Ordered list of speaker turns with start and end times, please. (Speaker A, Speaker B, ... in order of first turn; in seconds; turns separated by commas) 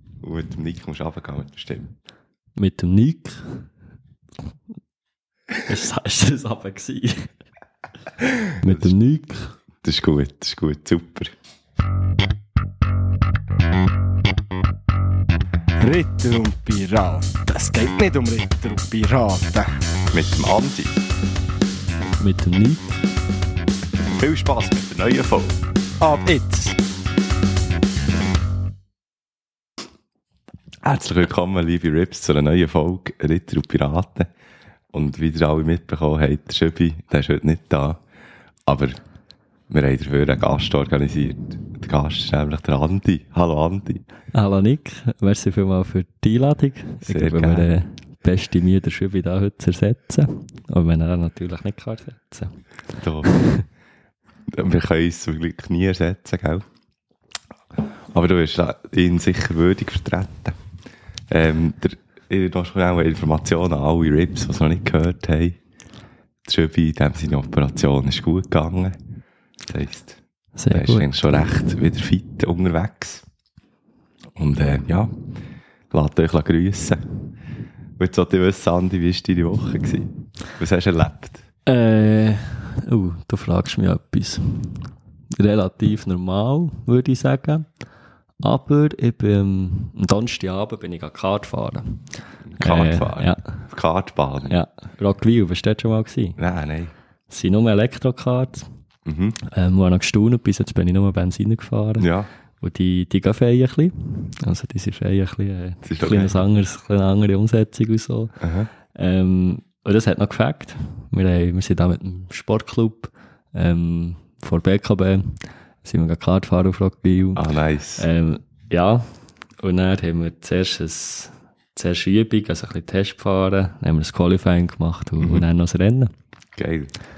Speaker A: 0.2-1.9, Speaker B: 2.6-3.7, Speaker B: 5.7-7.3, Speaker B: 8.6-9.5, Speaker A: 9.8-11.3, Speaker C: 15.8-19.7, Speaker A: 20.1-21.0, Speaker B: 22.2-23.0, Speaker A: 24.2-25.6, Speaker C: 26.0-26.8, Speaker A: 30.8-34.3, Speaker A: 34.9-38.0, Speaker A: 38.7-39.0, Speaker A: 39.7-44.0, Speaker B: 44.3-52.6, Speaker A: 47.0-47.7, Speaker A: 53.0-53.3, Speaker B: 53.2-53.7, Speaker A: 54.5-56.6, Speaker A: 58.1-60.6, Speaker A: 61.3-65.6, Speaker A: 66.5-69.0, Speaker A: 69.7-70.2, Speaker B: 70.6-71.1, Speaker A: 70.7-73.2, Speaker A: 74.3-75.2, Speaker A: 75.9-77.0, Speaker A: 78.0-81.4, Speaker B: 81.7-87.7, Speaker B: 88.4-92.1, Speaker A: 92.5-94.6, Speaker B: 92.6-93.6, Speaker B: 94.5-96.4, Speaker A: 96.4-96.9, Speaker B: 97.3-98.7, Speaker A: 99.1-99.4, Speaker B: 99.5-108.4, Speaker A: 102.0-102.3, Speaker A: 105.8-106.4, Speaker A: 108.4-108.7, Speaker B: 108.9-117.5, Speaker A: 117.3-118.1, Speaker B: 118.0-119.0, Speaker B: 119.6-126.1, Speaker A: 125.2-125.5, Speaker A: 126.6-126.9